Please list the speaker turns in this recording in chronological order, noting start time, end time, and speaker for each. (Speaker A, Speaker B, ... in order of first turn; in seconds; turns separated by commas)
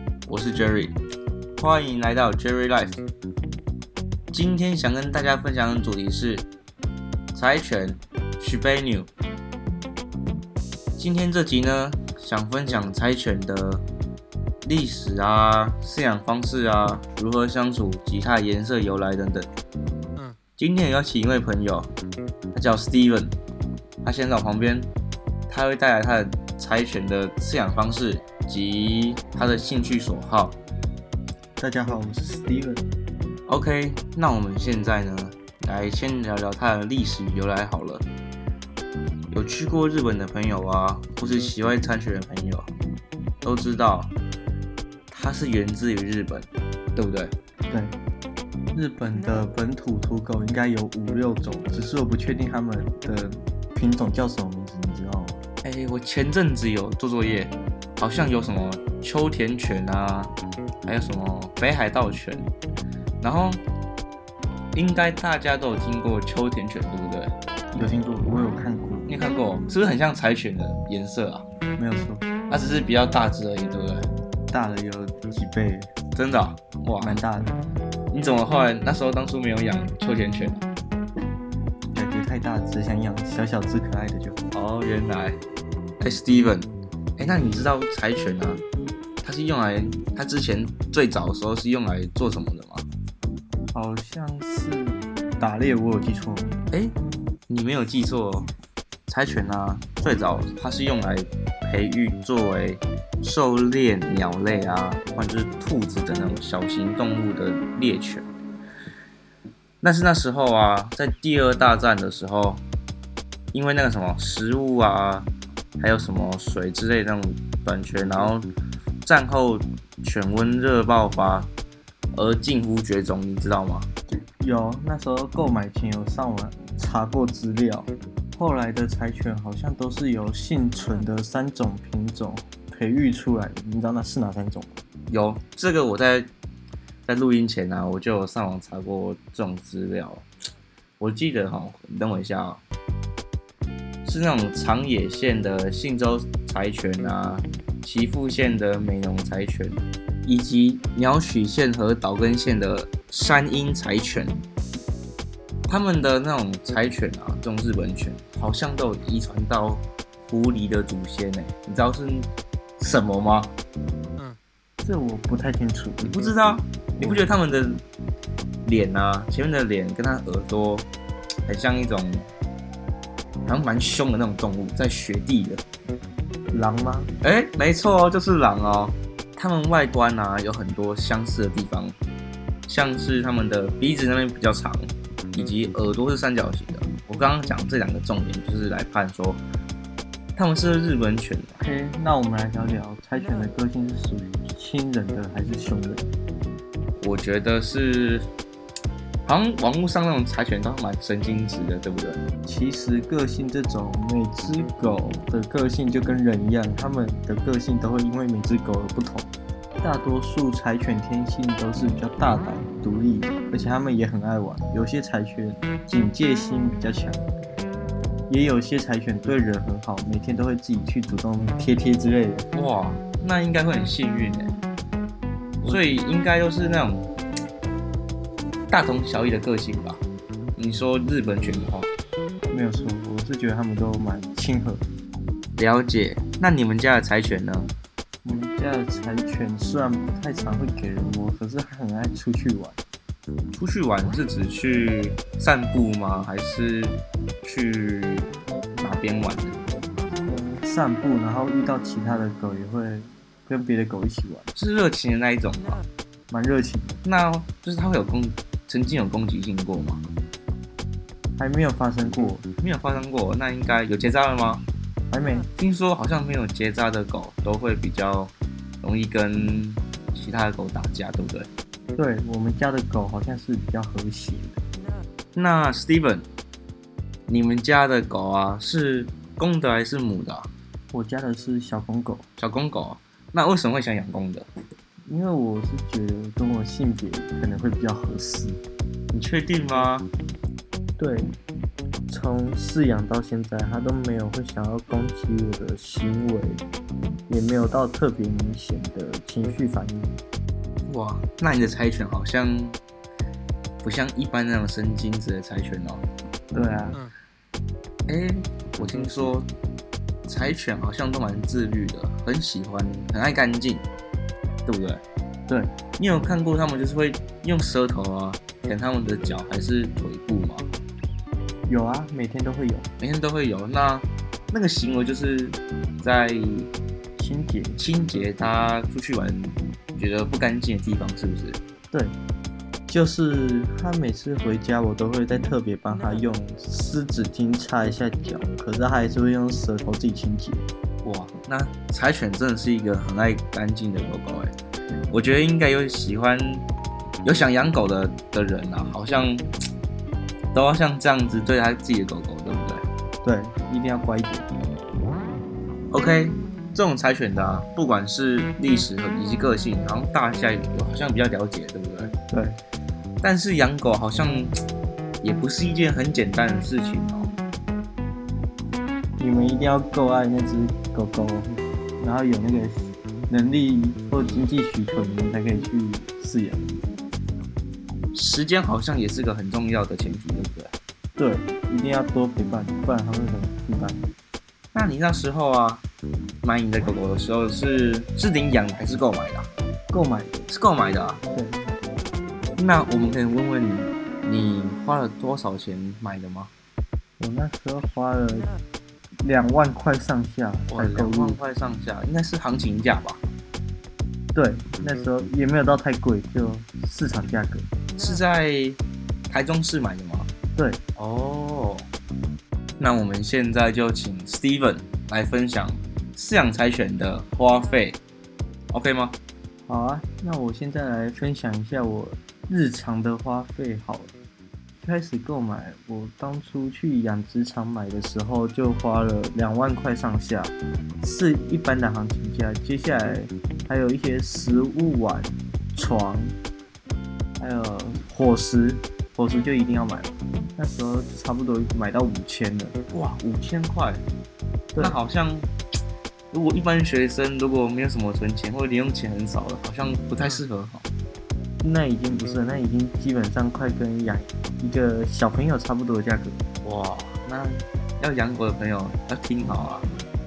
Speaker A: 0.3-1.0, Speaker A: 1.6-3.0, Speaker A: 4.3-6.5, Speaker A: 7.3-9.1, Speaker A: 11.0-13.8, Speaker A: 14.6-19.5, Speaker A: 20.6-21.9, Speaker A: 22.5-23.3, Speaker A: 24.0-24.9, Speaker A: 25.5-30.6, Speaker B: 31.6-32.9, Speaker A: 33.5-38.0, Speaker A: 39.3-42.7, Speaker A: 43.4-44.1, Speaker A: 45.1-47.4, Speaker B: 47.7-48.0, Speaker B: 48.7-55.4, Speaker A: 55.6-60.3, Speaker A: 60.9-62.5, Speaker A: 63.2-63.6, Speaker A: 64.7-67.3, Speaker B: 67.7-69.1, Speaker A: 69.1-71.5, Speaker B: 71.8-72.2, Speaker A: 72.5-74.1, Speaker B: 74.5-75.9, Speaker A: 76.2-77.2, Speaker B: 77.0-77.5, Speaker A: 78.1-80.7, Speaker B: 81.9-84.4, Speaker A: 84.5-85.4, Speaker A: 86.0-88.6, Speaker A: 89.2-92.8, Speaker B: 93.7-96.6, Speaker A: 97.5-98.5, Speaker A: 99.1-108.3, Speaker A: 109.8-112.6, Speaker A: 113.5-115.3, Speaker A: 115.8-118.5, Speaker A: 119.0-121.5, Speaker A: 122.1-123.9, Speaker B: 124.4-134.7, Speaker A: 135.1-136.3, Speaker A: 137.1-140.2, Speaker A: 141.0-142.6, Speaker A: 144.1-154.4, Speaker A: 155.7-162.3, Speaker A: 162.8-163.5, Speaker B: 164.8-166.2, Speaker A: 166.0-167.8, Speaker B: 167.0-167.3, Speaker A: 168.7-170.9, Speaker A: 171.5-172.3, Speaker A: 173.5-175.6, Speaker B: 176.5-177.1, Speaker A: 177.2-181.9, Speaker A: 182.7-189.4, Speaker A: 190.4-191.6, Speaker B: 191.6-196.1, Speaker A: 197.0-198.3, Speaker A: 199.2-202.2, Speaker B: 202.4-209.3, Speaker B: 209.8-217.3, Speaker B: 218.3-222.5, Speaker A: 222.5-224.6, Speaker A: 225.6-227.1, Speaker A: 228.7-230.0, Speaker A: 230.6-231.9, Speaker B: 232.5-234.8, Speaker A: 235.6-237.7, Speaker B: 238.2-242.8, Speaker A: 243.5-249.6, Speaker B: 250.2-254.5, Speaker A: 254.6-255.8, Speaker B: 256.3-257.0, Speaker A: 257.0-260.0, Speaker B: 261.4-262.5, Speaker A: 262.6-264.6, Speaker B: 265.1-265.5, Speaker A: 265.6-271.5, Speaker B: 271.9-274.6, Speaker A: 275.4-276.2, Speaker A: 277.3-280.5, Speaker B: 280.9-282.3, Speaker A: 282.4-284.5, Speaker B: 285.1-288.6, Speaker A: 289.1-290.1, Speaker B: 291.0-291.3, Speaker B: 292.1-296.6, Speaker B: 297.3-300.2, Speaker A: 300.9-302.8, Speaker A: 303.8-306.0, Speaker B: 306.5-307.1, Speaker A: 308.1-309.5, Speaker A: 310.3-313.9, Speaker A: 314.7-315.0, Speaker A: 316.0-320.7, Speaker B: 321.7-322.9, Speaker A: 323.0-326.7, Speaker B: 327.2-327.8, Speaker A: 327.8-331.6, Speaker B: 332.9-340.6, Speaker A: 341.0-344.5, Speaker A: 345.1-346.6, Speaker A: 347.2-349.5, Speaker A: 350.5-352.8, Speaker B: 353.2-354.5, Speaker A: 355.9-362.1, Speaker B: 362.3-362.6, Speaker A: 363.2-364.6, Speaker A: 365.2-367.3, Speaker B: 369.2-376.8, Speaker A: 378.1-380.7, Speaker B: 381.2-384.0, Speaker A: 384.7-385.8, Speaker A: 386.4-389.5, Speaker B: 389.9-390.5, Speaker A: 390.5-391.2, Speaker B: 391.3-391.6, Speaker A: 392.6-396.5, Speaker B: 397.2-398.5, Speaker B: 399.2-401.4, Speaker A: 400.7-403.2, Speaker B: 404.3-407.7, Speaker A: 408.0-410.3, Speaker A: 411.0-411.9, Speaker A: 412.8-418.0, Speaker A: 418.7-419.2, Speaker B: 419.7-424.1, Speaker B: 424.8-436.4, Speaker B: 437.4-442.8, Speaker A: 442.9-444.0, Speaker A: 444.8-445.5, Speaker A: 446.3-450.9, Speaker B: 451.6-456.4, Speaker A: 456.6-459.9